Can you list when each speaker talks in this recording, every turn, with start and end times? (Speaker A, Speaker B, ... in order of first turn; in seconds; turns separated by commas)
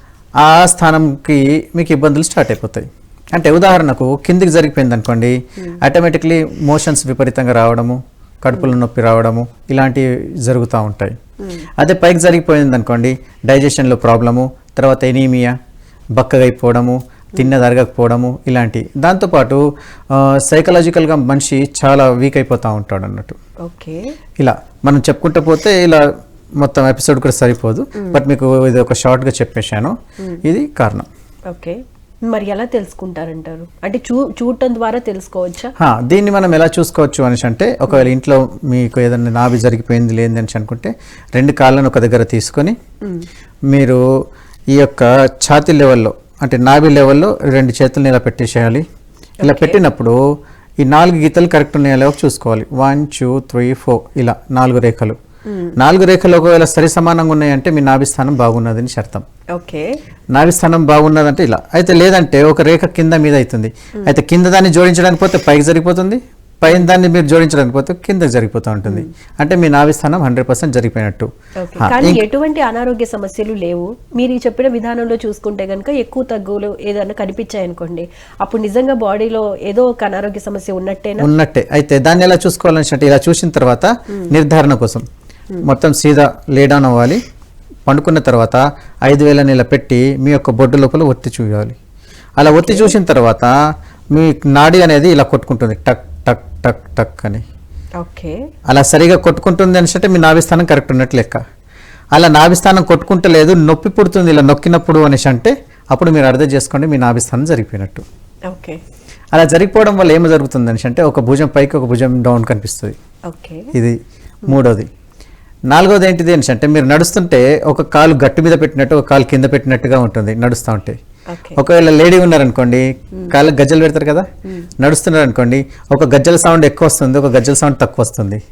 Speaker A: 0.4-11.2, Speaker A: 11.8-15.5, Speaker A: 16.2-23.4, Speaker B: 23.6-24.0, Speaker A: 24.4-26.0, Speaker A: 26.6-31.1, Speaker B: 31.5-31.8, Speaker B: 32.3-35.7, Speaker A: 35.8-42.8, Speaker A: 43.7-44.0, Speaker A: 44.8-48.9, Speaker B: 49.4-49.8, Speaker A: 49.4-50.2, Speaker A: 50.8-55.2, Speaker B: 55.5-55.8, Speaker A: 55.8-59.2, Speaker B: 59.5-59.9, Speaker A: 60.4-71.3, Speaker B: 71.6-81.3, Speaker A: 71.8-72.2, Speaker A: 81.2-85.0, Speaker A: 85.6-87.2, Speaker A: 87.9-91.8, Speaker A: 92.4-93.5, Speaker B: 92.5-92.9, Speaker A: 94.1-97.4, Speaker B: 98.0-98.4, Speaker A: 98.7-101.4, Speaker A: 102.1-108.0, Speaker B: 108.5-108.8, Speaker A: 109.3-113.0, Speaker B: 113.3-113.7, Speaker A: 113.7-114.9, Speaker A: 115.7-121.0, Speaker B: 121.3-121.6, Speaker A: 121.6-124.3, Speaker A: 124.8-128.4